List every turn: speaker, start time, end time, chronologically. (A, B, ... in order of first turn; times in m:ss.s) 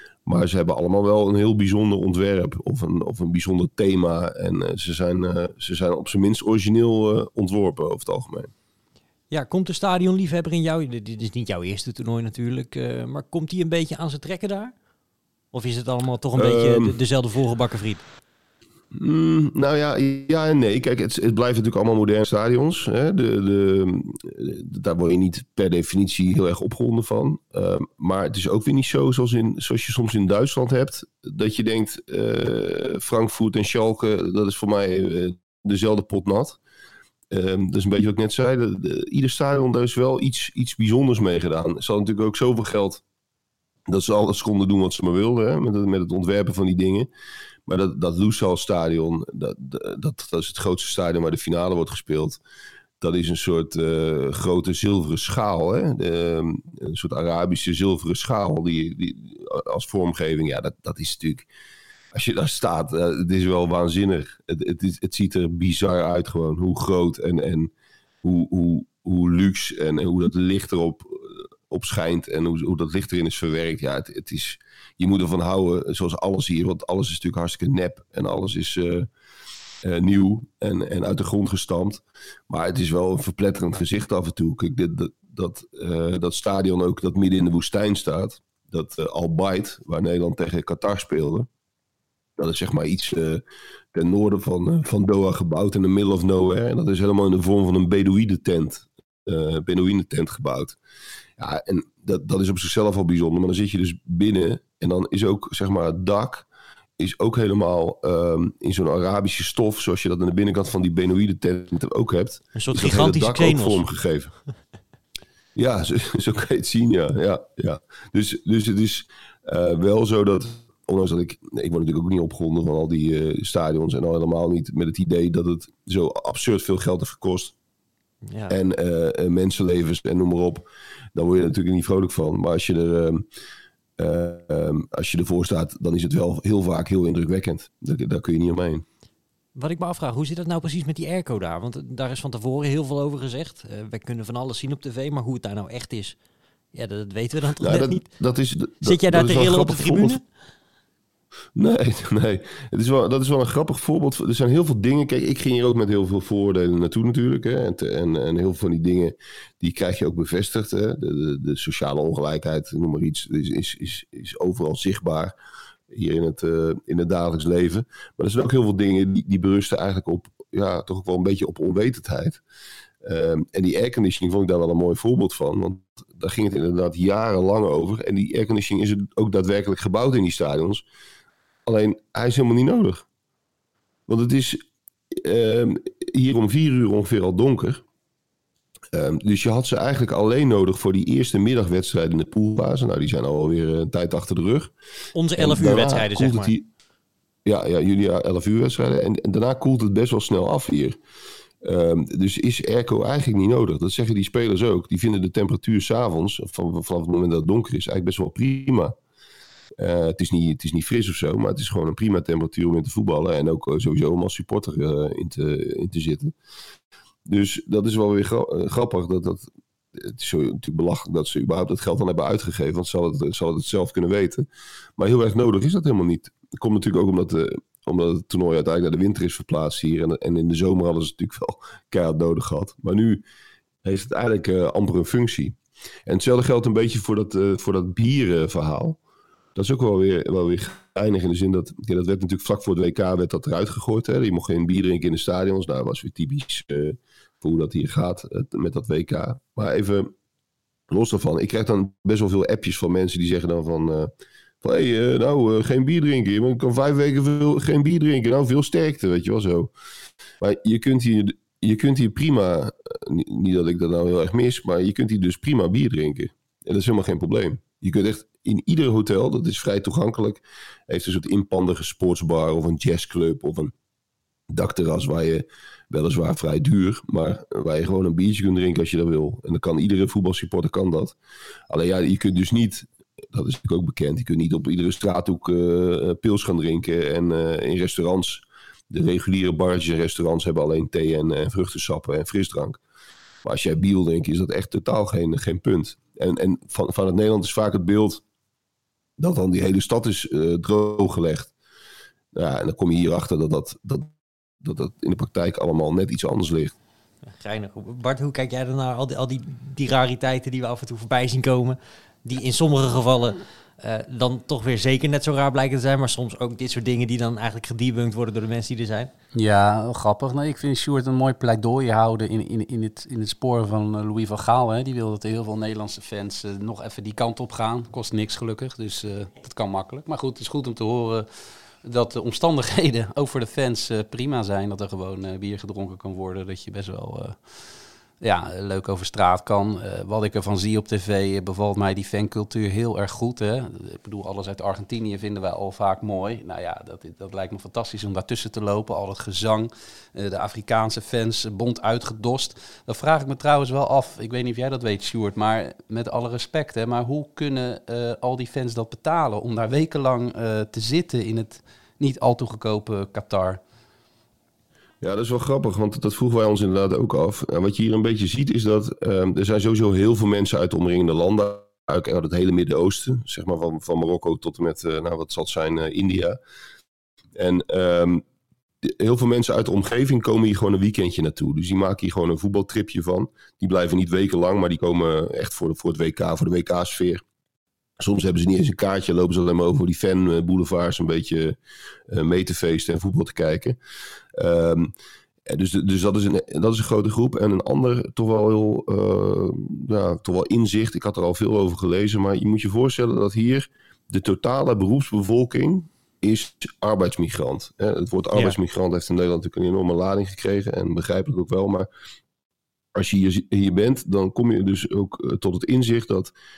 0:00.2-0:08.5 A
0:09.3-0:14.7 B
0:15.5-0:18.0 B
0:16.4-0:17.0 A
0:18.9-0:36.6 A
0:37.3-0:43.0 A
0:43.9-0:47.1 A
0:47.6-0:52.4 A
0:53.0-1:01.5 A
1:02.1-1:07.7 A
1:08.2-1:19.1 A
1:19.8-1:31.5 A
1:32.4-1:33.4 A
1:33.9-1:40.8 A
1:41.4-1:46.4 A
1:47.0-1:54.3 A
1:52.5-1:53.8 B
1:55.6-2:07.5 A
2:08.3-2:08.6 B
2:08.5-2:13.2 A
2:14.0-2:18.8 A
2:19.6-2:26.2 B
2:26.7-2:28.0 B
2:27.6-2:30.2 A
2:28.8-2:30.2 B
2:31.6-2:45.3 A
2:45.9-2:52.4 A
2:53.0-3:00.8 A
3:01.6-3:03.0 A
3:04.1-3:04.6 A
3:05.1-3:07.8 A
3:08.9-3:14.7 A
3:15.1-3:16.5 B
3:15.4-3:16.7 A
3:17.4-3:21.0 A
3:21.6-3:28.9 A
3:29.8-3:36.3 A
3:37.2-3:44.4 A
3:45.0-3:53.2 A
3:53.8-3:59.0 A
3:59.5-4:10.1 A
4:10.9-4:14.1 A
4:14.6-4:19.7 A
4:20.4-4:33.7 A
4:34.5-4:41.2 A
4:41.7-4:52.8 A
4:53.4-4:58.2 A
4:59.2-5:01.5 A
5:02.3-5:06.7 A
5:07.4-5:19.1 B
5:19.3-6:03.6 C
6:05.0-6:16.4 A
6:17.4-6:18.2 A
6:18.8-6:27.2 A
6:28.0-6:31.6 A
6:32.1-6:33.8 A
6:34.3-6:34.9 A
6:35.4-6:51.9 A
6:52.9-6:56.3 A